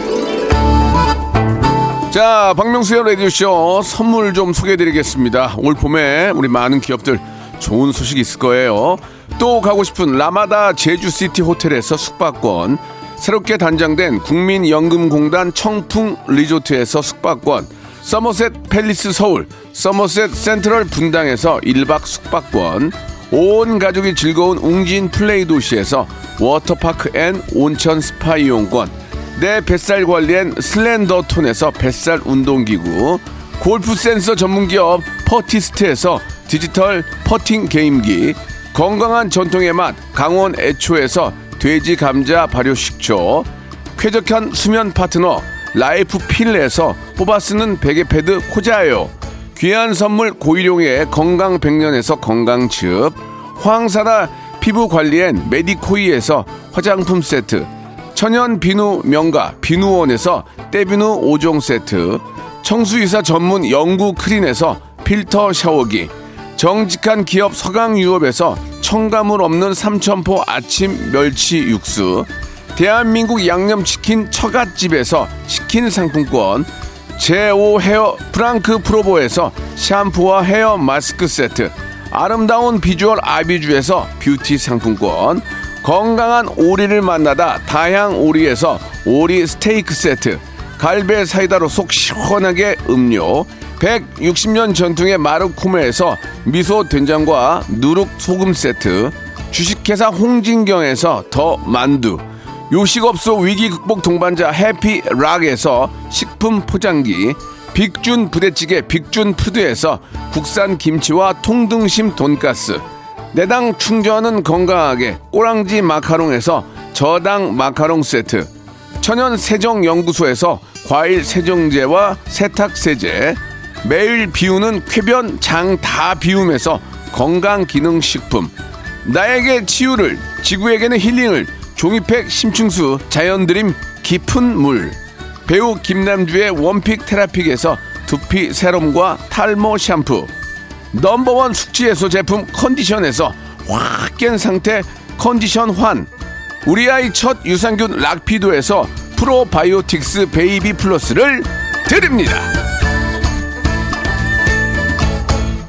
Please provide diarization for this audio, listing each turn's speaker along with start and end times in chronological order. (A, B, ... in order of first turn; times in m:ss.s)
0:02.1-2:20.3 A
2:20.9-2:26.1 A
2:26.6-2:32.5 A